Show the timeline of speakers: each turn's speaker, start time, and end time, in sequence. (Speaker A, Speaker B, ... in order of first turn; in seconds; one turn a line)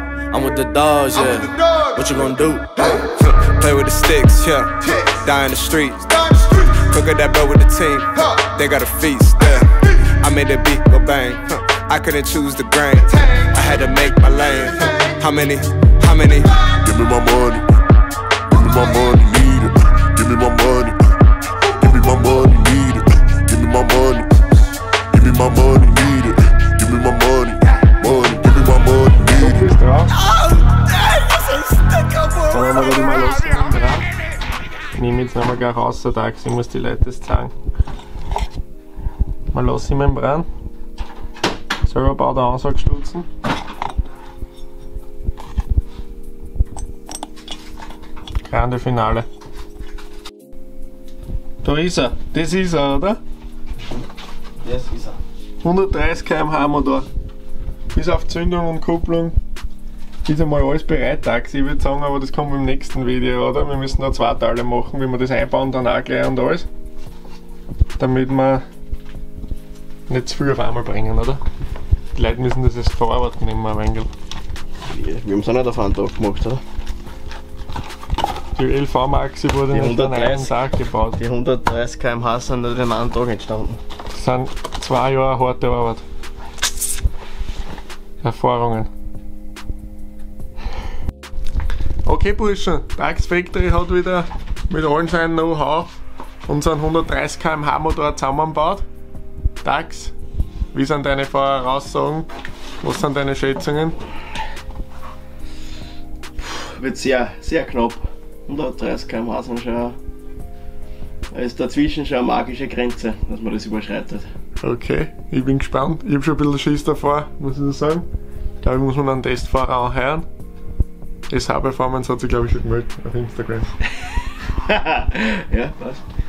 Speaker A: 0.3-2.9
Speaker B: 2.9-16.8
Speaker C: 16.8-17.7
Speaker C: 18.5-21.0
Speaker C: 21.8-24.3
Speaker C: 25.1-29.4
Speaker D: 29.3-30.2
Speaker D: 32.4-34.1
Speaker D: 34.9-37.5
Speaker D: 39.5-40.5
Speaker D: 41.8-43.3
Speaker D: 48.5-49.3
Speaker D: 51.6-53.2
Speaker E: 54.6-55.2
Speaker D: 55.6-57.1
Speaker D: 57.9-59.4
Speaker D: 60.2-66.7
Speaker D: 68.0-68.6
Speaker D: 70.1-71.4
Speaker D: 72.1-74.1
Speaker E: 74.8-76.6
Speaker D: 78.5-81.2
Speaker E: 79.7-80.6
Speaker E: 81.1-83.8
Speaker D: 84.1-86.0
Speaker D: 88.2-88.9
Speaker D: 92.0-98.8
Speaker D: 99.6-100.1
Speaker D: 100.7-102.3
Speaker D: 102.8-104.0
Speaker E: 106.4-110.0
Speaker E: 111.3-114.3
Speaker D: 114.6-118.0
Speaker D: 118.6-120.2
Speaker D: 121.3-123.7
Speaker E: 124.7-126.0